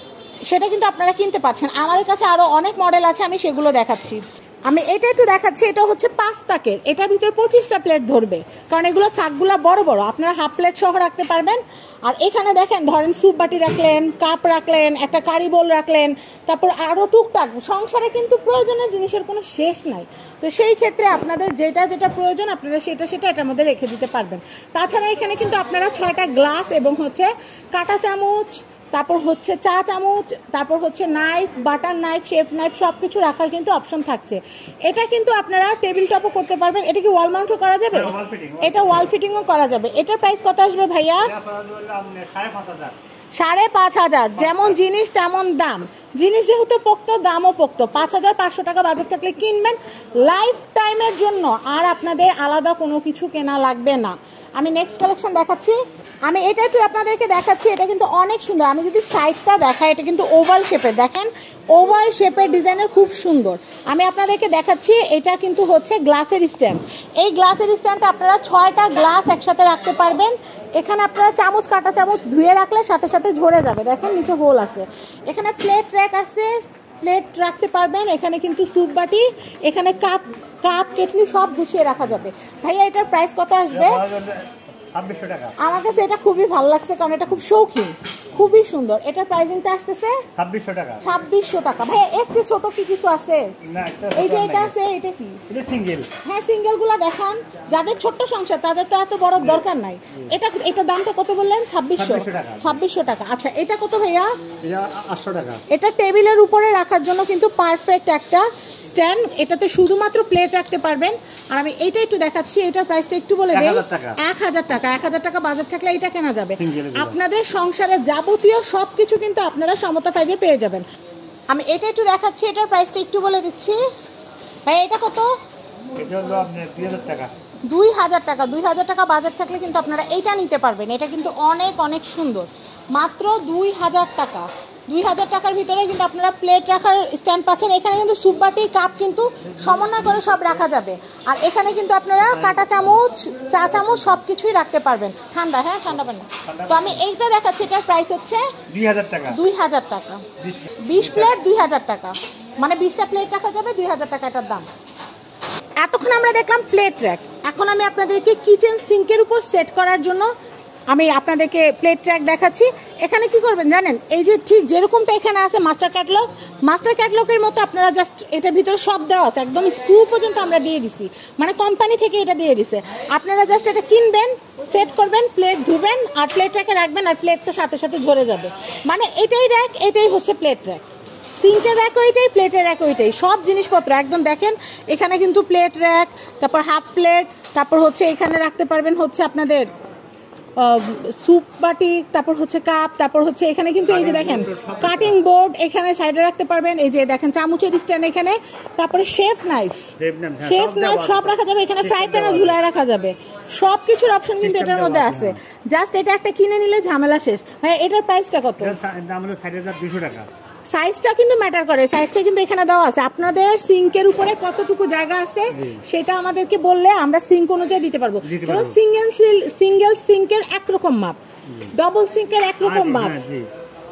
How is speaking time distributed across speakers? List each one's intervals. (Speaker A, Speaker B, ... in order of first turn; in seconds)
Speaker A: 0.5-41.3, 43.4-84.0, 85.6-90.2, 91.0-93.5, 94.2-95.4, 96.2-104.3, 105.7-120.8, 121.5-123.8, 124.7-125.3, 127.7-148.5, 149.3-150.2, 150.8-154.7, 155.8-160.3, 160.9-180.8, 181.4-189.7, 190.6-199.9, 200.4-208.8, 210.7-221.2, 221.7-223.2
Speaker B: 37.9-39.1, 41.2-43.0, 44.4-44.8, 83.7-85.5, 90.4-91.0, 93.7-94.7, 95.5-96.1, 102.0-102.8, 104.6-105.6, 113.5-114.2, 116.6-117.2, 126.0-127.3, 146.4-147.1, 148.7-149.4, 150.4-151.3, 193.9-195.2, 200.0-202.6, 204.4-205.4, 208.6-210.3, 215.5-215.8, 218.2-218.8, 222.6-223.5